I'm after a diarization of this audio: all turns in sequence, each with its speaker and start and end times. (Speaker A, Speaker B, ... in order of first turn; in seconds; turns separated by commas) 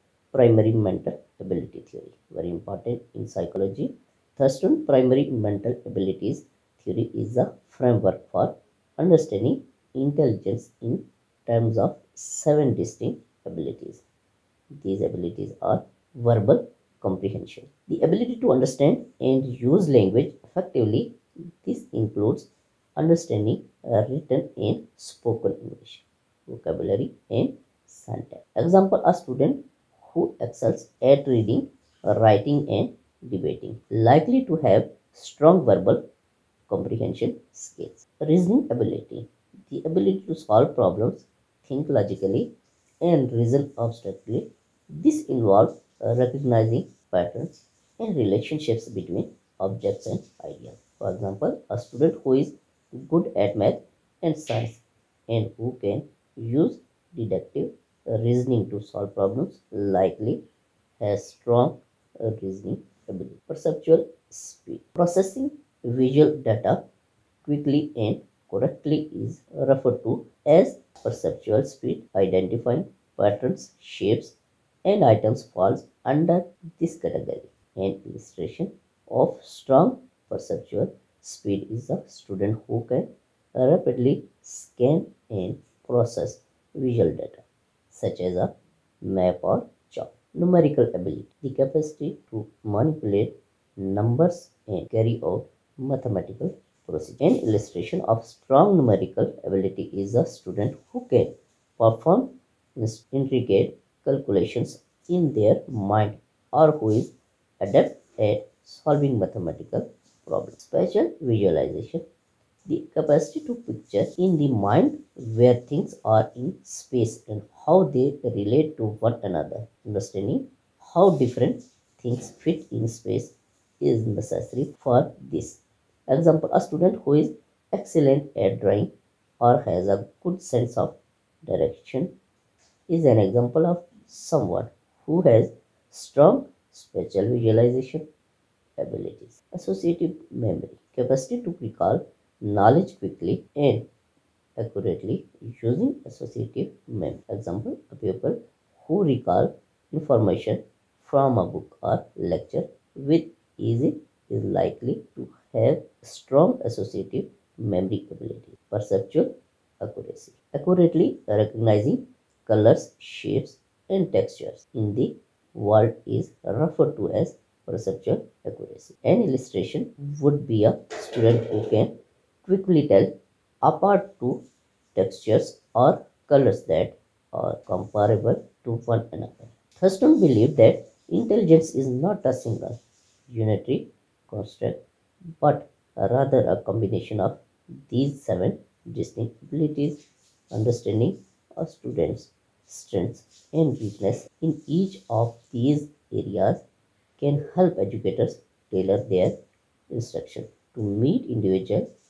Speaker A: 0.3-14.0, Speaker A: 14.8-36.0, Speaker A: 36.7-60.4, Speaker A: 61.0-66.8, Speaker A: 67.4-112.0, Speaker A: 112.7-132.1, Speaker A: 132.9-138.1, Speaker A: 138.8-143.9, Speaker A: 144.6-171.9, Speaker A: 172.4-173.1, Speaker A: 173.6-174.4, Speaker A: 174.9-184.8, Speaker A: 185.4-190.0, Speaker A: 190.5-196.6, Speaker A: 197.2-199.4, Speaker A: 199.9-201.9